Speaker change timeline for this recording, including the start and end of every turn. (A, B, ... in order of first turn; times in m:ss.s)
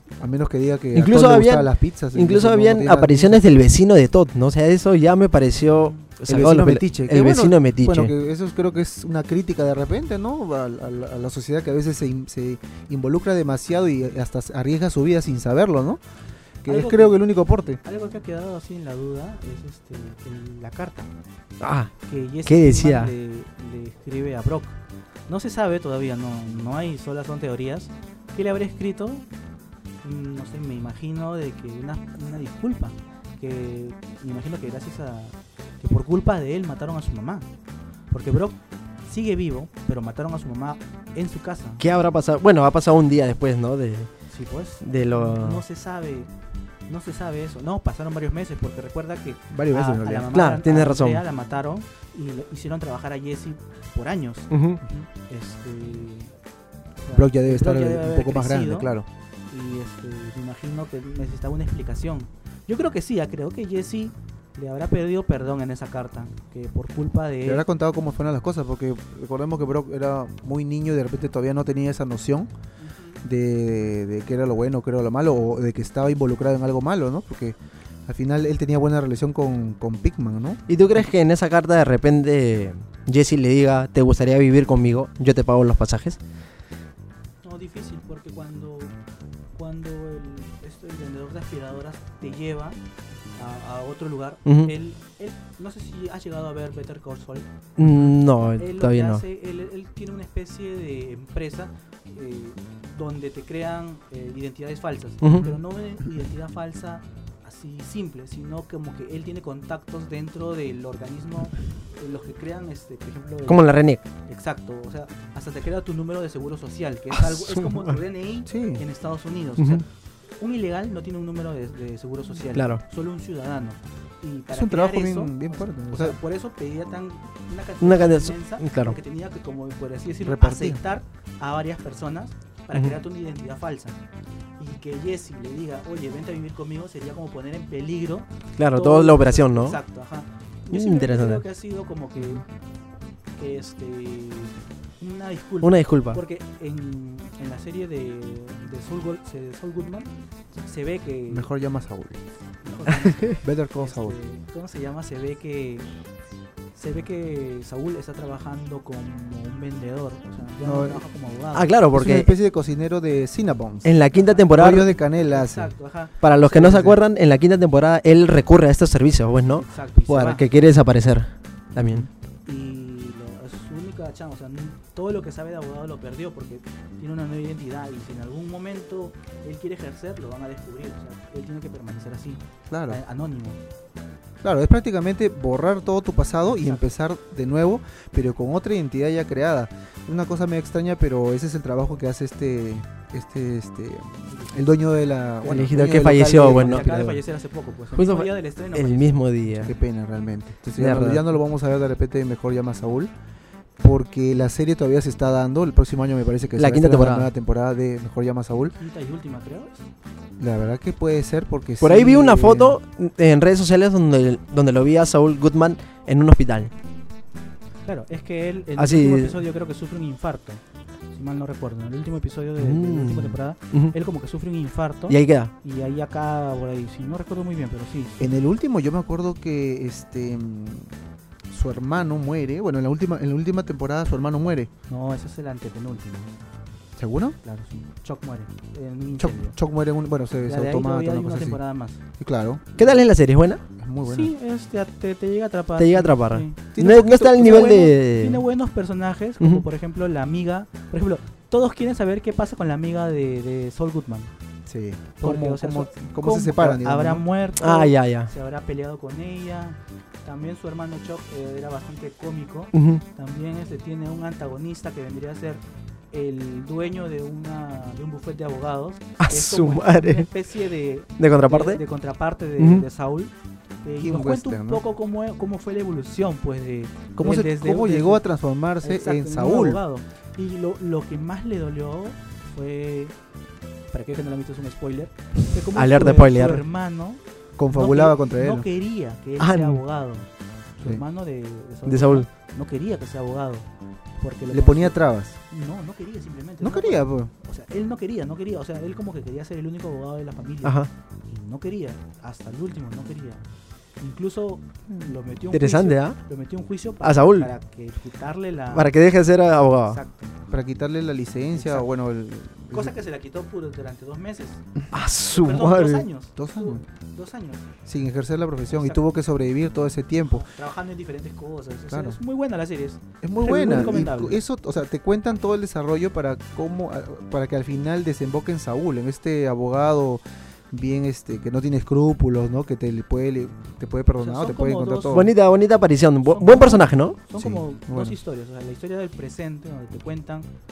0:00.2-0:03.4 A
0:00.9-0:08.1 B
0:06.3-0:16.0 A
0:16.6-0:17.8 A
0:16.7-0:17.2 C
0:17.8-0:21.1 C
0:21.6-0:21.9 B
0:22.1-0:29.3 C
0:22.5-0:23.1 B
0:30.0-0:37.5 C
0:38.1-0:41.8 C
0:41.8-0:44.1 B
0:44.3-0:46.3 C
0:44.8-0:45.6 B
0:46.9-0:56.3 C
0:49.5-0:50.3 A
0:50.3-0:51.2 B
0:54.5-0:54.8 B
0:57.0-0:58.9 C
0:57.1-0:59.1 A
0:59.5-1:07.6 C
1:07.4-1:12.5 A
1:12.8-1:13.2 C
1:13.2-1:17.6 A
1:18.1-1:20.6 A
1:20.7-1:26.2 B
1:27.4-1:28.9 C
1:29.5-1:32.8 C
1:33.4-1:53.7 C
1:34.5-1:34.7 B
1:37.8-1:39.2 B
1:45.2-1:45.5 B
1:53.5-1:54.0 B
1:54.2-1:59.8 C
1:57.3-1:57.8 B
1:58.5-1:58.8 A
1:59.6-1:59.8 B
2:00.4-2:14.0 C
2:02.5-2:02.8 B
2:04.5-2:06.2 A
2:07.8-2:09.0 B
2:10.2-2:10.8 A
2:14.6-2:22.4 C
2:18.6-2:19.8 B
2:20.7-2:21.4 B
2:23.4-2:31.5 C
2:25.6-2:26.2 B
2:31.3-2:32.2 A
2:32.6-2:35.9 C
2:33.3-2:34.2 A
2:36.8-2:41.7 C
2:40.6-2:41.0 A
2:41.5-2:42.3 B
2:41.9-2:43.9 A
2:43.8-2:44.9 B
2:44.1-2:46.2 C
2:44.5-2:45.7 A
2:46.2-2:52.1 B
2:46.5-2:47.0 A
2:49.6-2:50.4 C
2:51.8-2:52.1 A
2:52.5-3:03.6 C
3:02.7-3:03.0 A
3:04.4-3:17.1 A
3:06.5-3:06.9 C
3:14.3-3:14.7 C
3:15.4-3:19.7 C
3:15.4-3:17.2 B
3:18.0-3:19.7 B
3:19.6-3:23.1 A
3:20.8-3:21.3 B
3:23.8-3:28.7 A
3:26.6-3:27.3 B
3:28.7-3:29.9 C
3:30.4-3:32.8 A
3:31.8-3:36.7 B
3:37.8-3:40.6 C
3:38.8-3:39.4 B
3:41.1-3:48.3 C
3:42.6-3:43.9 B
3:45.1-3:45.5 B
3:48.2-3:50.9 A
3:51.5-3:54.7 A
3:54.9-3:56.4 C
3:57.0-3:57.4 A
3:57.4-3:59.6 C
3:59.2-4:01.6 A
4:00.5-4:02.0 C
4:02.2-4:03.0 A
4:02.8-4:03.6 B
4:03.8-4:04.3 A
4:04.0-4:14.3 C
4:05.8-4:08.4 B
4:06.7-4:07.9 A
4:14.7-4:17.3 A
4:15.2-4:25.6 C
4:17.6-4:18.3 B
4:22.7-4:23.0 B
4:26.1-4:38.2 C
4:29.2-4:30.3 B
4:31.2-4:31.8 B
4:32.6-4:32.8 B
4:34.0-4:34.8 A
4:37.2-4:39.8 A
4:38.8-4:43.2 C
4:43.9-4:50.3 C
4:45.7-4:46.6 B
4:47.6-4:48.7 A
4:49.4-4:49.8 B
4:50.8-5:03.4 C
4:51.9-4:52.3 B
4:54.5-4:55.4 A
4:56.6-4:57.3 A
5:00.6-5:00.9 B
5:04.0-5:08.9 C
5:05.5-5:06.2 B
5:07.0-5:07.5 B
5:08.7-5:10.0 B
5:09.9-5:10.4 C
5:10.5-5:12.9 A
5:11.5-5:11.9 C
5:12.7-5:14.6 C
5:14.9-5:16.1 B
5:15.3-5:17.6 C
5:16.4-5:16.8 A
5:17.8-5:20.5 A
5:18.7-5:19.0 C
5:20.2-5:24.4 C
5:21.9-5:22.2 A
5:23.2-5:35.3 A
5:34.2-5:35.3 C
5:35.1-5:37.2 B
5:36.2-5:40.5 C
5:37.4-5:38.2 A